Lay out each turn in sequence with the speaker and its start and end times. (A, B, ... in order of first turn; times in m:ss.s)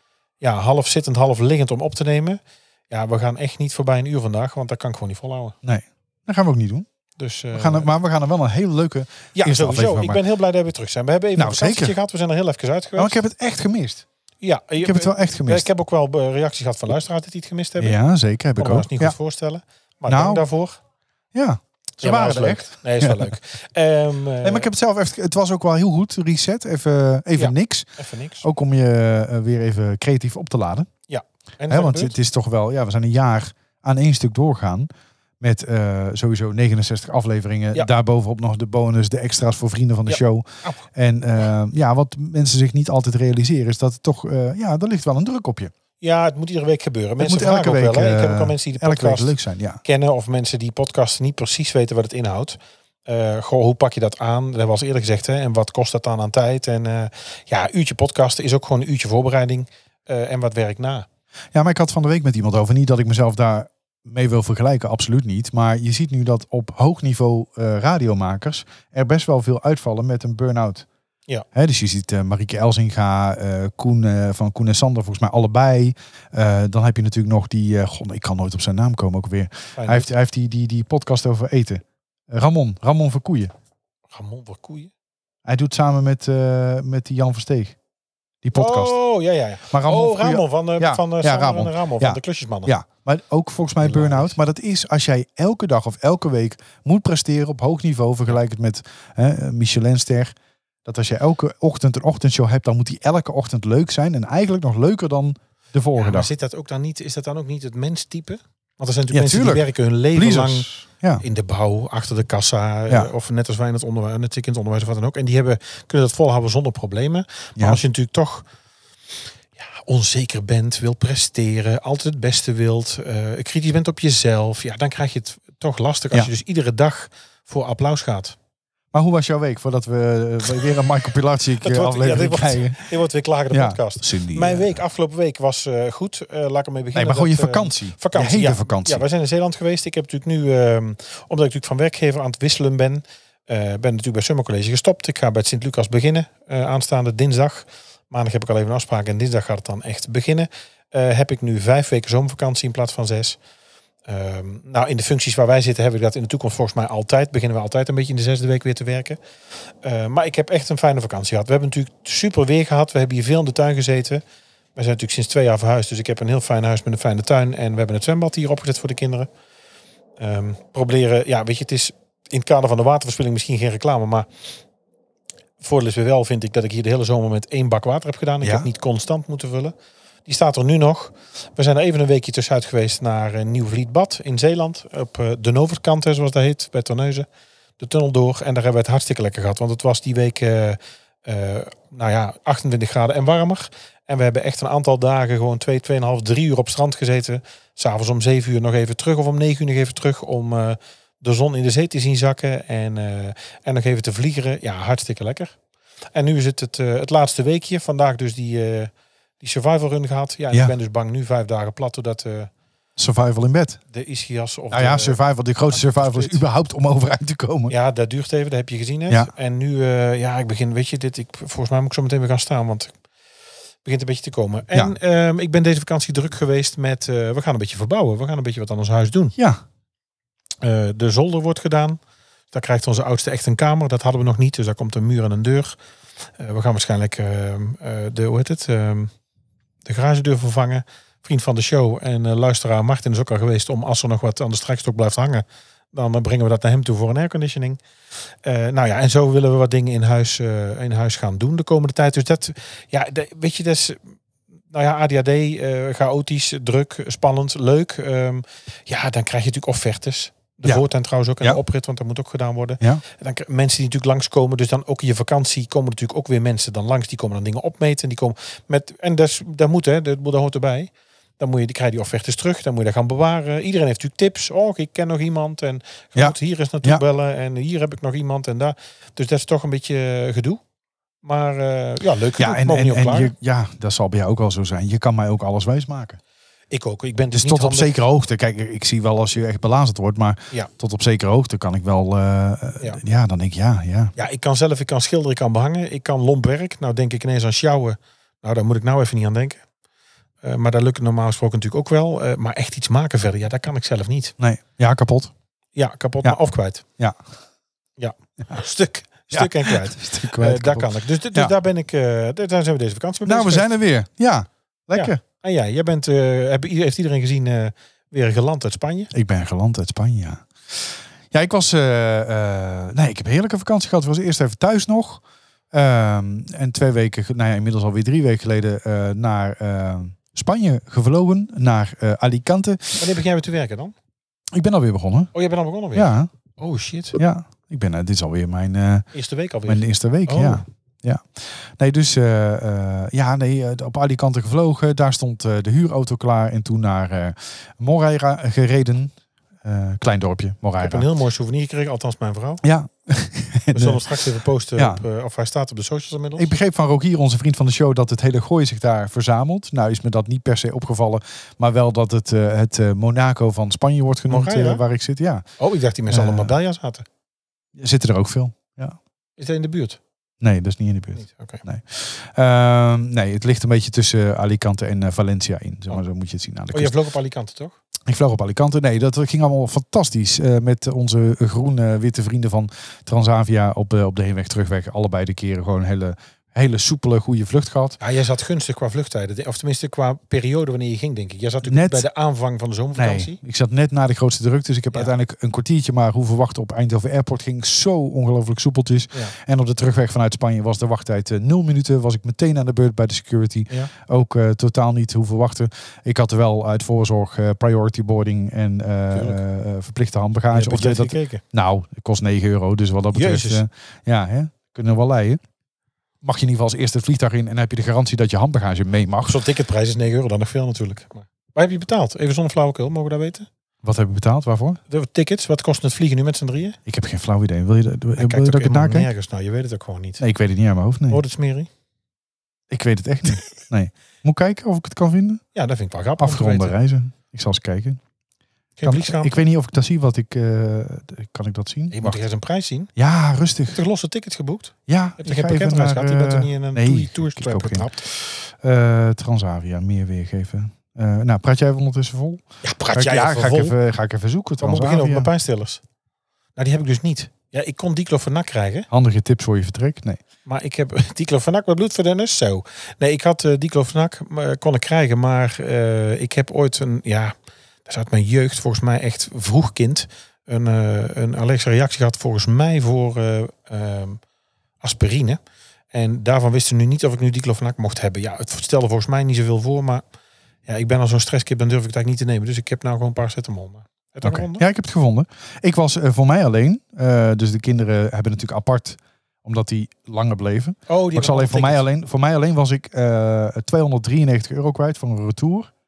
0:00.4-0:05.6 A
0:05.6-0:06.9 B
0:07.2-0:07.9 A
0:07.5-0:10.2 B
0:09.3-0:13.2 A
0:11.4-0:11.9 B
0:13.0-0:14.0 B
0:14.4-0:18.0 A
0:14.8-0:15.7 B
0:17.8-0:19.1 B
0:18.6-0:20.8 A
0:20.1-0:20.4 B
0:21.3-0:23.3 B
0:22.0-0:24.7 A
0:24.4-0:27.9 B
0:27.4-0:28.5 A
0:28.4-0:30.9 B
0:31.1-0:32.2 A
0:31.7-0:34.9 B
0:35.4-0:45.7 B
0:40.1-0:40.8 A
0:46.0-1:01.0 A
0:47.2-0:49.8 B
1:01.5-1:10.8 B
1:11.5-1:23.5 B
1:19.8-1:20.1 A
1:24.1-1:24.9 A
1:25.4-1:27.7 B
1:28.4-1:28.9 B
1:28.5-1:32.7 A
1:29.7-1:40.3 B
1:33.8-1:34.4 A
1:40.8-1:46.3 B
1:45.9-1:58.5 A
1:49.1-1:51.2 B
1:59.6-2:08.4 A
2:08.9-2:12.8 B
2:11.6-2:33.4 A
2:13.5-2:14.8 B
2:16.9-2:19.0 B
2:34.1-2:39.2 A
2:39.8-2:44.2 A
2:44.8-2:49.3 A
2:50.2-2:54.3 A
2:55.6-2:59.7 A
2:58.4-2:58.7 B
3:00.2-3:07.3 A
3:07.8-3:25.5 A
3:26.1-3:32.5 A
3:33.0-3:33.8 B
3:33.9-3:36.4 A
3:34.7-3:37.7 B
3:37.7-3:42.9 A
3:43.8-3:49.4 A
3:49.4-3:49.6 B
3:50.6-3:52.0 A
3:52.5-3:55.7 A
3:56.4-3:59.1 A
3:59.8-4:07.8 A
4:08.4-4:14.0 A
4:14.7-4:40.6 A
4:36.2-4:37.0 B
4:41.2-4:43.3 A
4:42.4-4:46.2 B
4:46.7-4:47.9 A
4:47.3-4:54.1 B
4:54.2-4:59.6 A
5:00.4-5:04.3 A
5:04.4-5:05.3 B
5:05.7-5:06.8 A
5:08.0-5:13.7 A
5:09.3-5:11.5 B
5:13.2-5:15.2 B
5:14.9-5:19.1 A
5:19.1-5:33.0 B
5:33.0-5:33.9 A
5:34.5-5:35.3 B
5:35.3-5:37.2 A
5:35.9-5:36.3 B
5:37.2-5:39.1 B
5:39.1-5:40.6 A
5:39.6-5:49.1 B
5:49.6-5:51.1 B
5:50.8-5:52.6 A
5:52.6-5:54.0 B
5:53.7-5:56.5 A
5:54.8-5:55.0 B
5:56.4-6:05.4 B
6:04.3-6:04.8 A
6:05.6-6:07.0 A
6:06.1-6:06.5 B
6:07.8-6:09.0 B
6:09.4-6:10.0 A
6:10.4-6:17.0 B
6:11.2-6:11.6 A
6:16.7-6:17.8 A
6:18.0-6:28.0 B
6:28.0-6:33.4 A
6:31.6-6:32.0 B
6:32.9-6:55.4 B
6:49.1-6:49.4 A
6:50.5-6:51.4 A
6:53.1-6:53.6 A
6:56.2-6:59.4 B
6:59.2-7:03.5 A
7:03.8-7:04.8 B
7:04.9-7:06.8 A
7:06.9-7:09.1 B
7:08.2-7:10.2 A
7:10.2-7:11.2 B
7:11.1-7:11.7 A
7:12.7-7:15.4 B
7:15.5-7:16.8 A
7:16.2-7:18.0 B
7:18.8-7:19.4 A
7:18.8-7:22.2 B
7:21.9-7:22.9 A
7:23.0-7:23.8 B
7:23.7-7:28.0 A
7:24.9-7:32.4 B
7:32.6-7:33.8 A
7:32.9-7:35.3 B
7:34.6-7:35.8 A
7:36.6-7:38.9 A
7:38.9-7:40.2 B
7:40.4-7:54.2 A
7:54.8-7:55.4 A
7:55.9-8:00.0 A
8:00.6-8:04.6 A
8:04.2-8:15.7 B
8:10.9-8:11.8 A